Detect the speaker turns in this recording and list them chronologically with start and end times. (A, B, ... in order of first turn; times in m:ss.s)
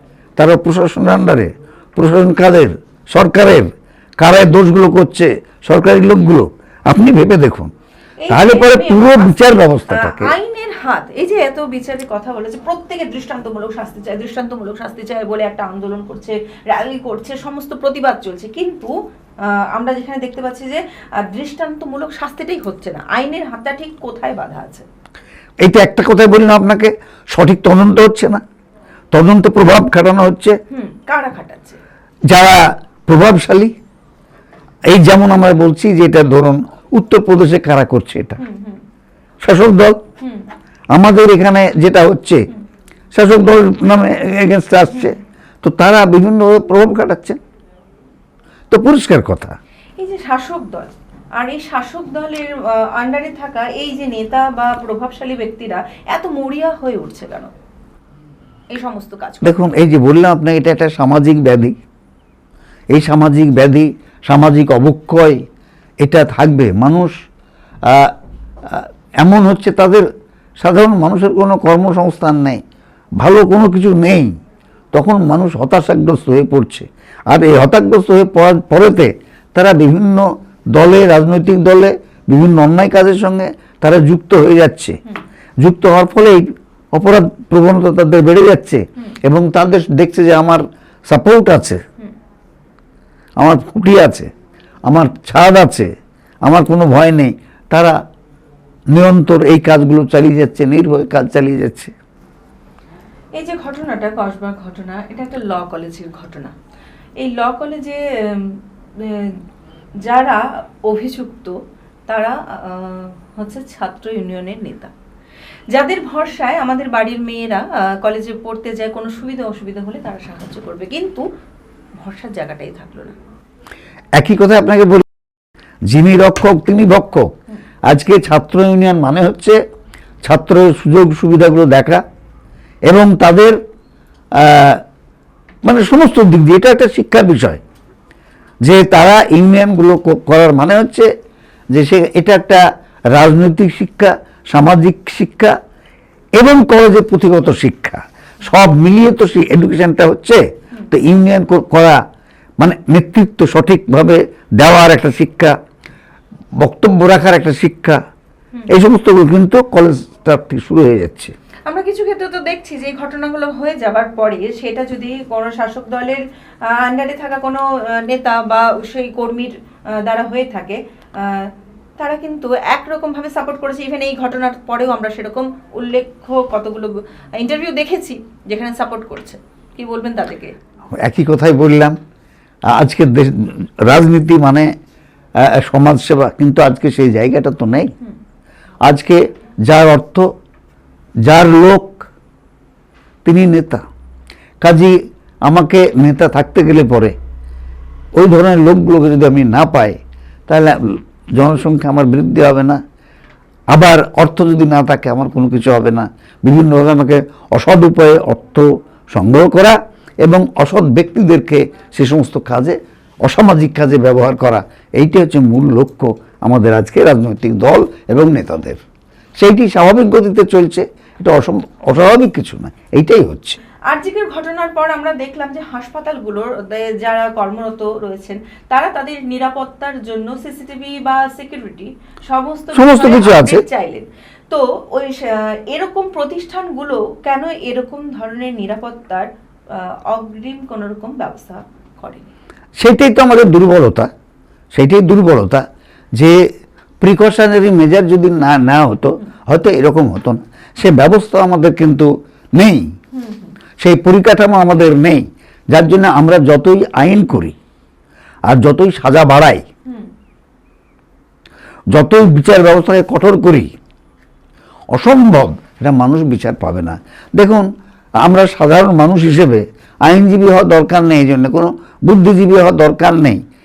0:00.4-0:07.7 A
0:08.2-0:18.9 B
0:08.3-0:10.3 A
0:19.4-0:24.8 B
0:25.6-0:28.4 A
0:29.1-0:30.6 A
0:30.7-0:31.8 B
0:32.3-0:33.7 A
0:34.9-0:38.4 A
0:38.4-0:38.8 B
0:39.4-0:40.0 A
0:40.2-0:40.5 B
0:40.9-0:42.4 A
0:43.1-0:47.4 A
0:48.7-0:49.6 A
0:50.0-0:57.5 B
0:58.7-0:59.7 B
0:59.4-1:01.8 A
1:02.9-1:05.4 A
1:06.0-1:07.1 A
1:07.8-1:08.1 A
1:08.6-1:10.1 A
1:10.6-1:12.6 A
1:13.2-1:14.3 A
1:14.9-1:25.0 A
1:25.6-1:31.8 A
1:33.4-1:34.3 A
1:34.8-1:35.9 A
1:36.4-1:38.0 A
1:38.9-1:41.9 A
1:43.4-1:46.5 B
1:47.2-1:49.4 B
1:50.0-1:51.5 B
1:52.1-1:54.9 B
1:55.7-2:01.2 B
2:02.0-2:03.2 B
2:04.2-2:05.0 A
2:05.9-2:07.3 A
2:07.9-2:09.6 A
2:10.2-2:12.0 A
2:12.8-2:13.6 A
2:14.3-2:14.8 A
2:15.6-2:17.6 A
2:18.6-2:21.1 A
2:21.7-2:22.6 A
2:23.1-2:25.5 A
2:26.4-2:32.0 A
2:32.6-2:35.5 A
2:36.6-2:38.0 A
2:38.7-2:41.3 A
2:41.7-3:00.5 B
3:01.0-3:02.0 A
3:02.7-3:04.7 A
3:05.4-3:07.9 A
3:08.8-3:10.3 A
3:11.2-3:12.1 A
3:13.2-3:13.8 A
3:14.6-3:17.2 A
3:18.2-3:22.8 A
3:23.7-3:38.8 A
3:39.4-3:43.6 A
3:43.9-4:02.3 B
3:52.7-3:53.6 A
4:02.8-4:04.1 A
4:04.7-4:05.6 A
4:07.0-4:12.9 A
4:13.1-4:13.6 B
4:13.8-4:17.6 A
4:18.5-4:19.6 A
4:21.9-4:23.7 A
4:24.9-4:27.7 A
4:28.2-4:33.4 A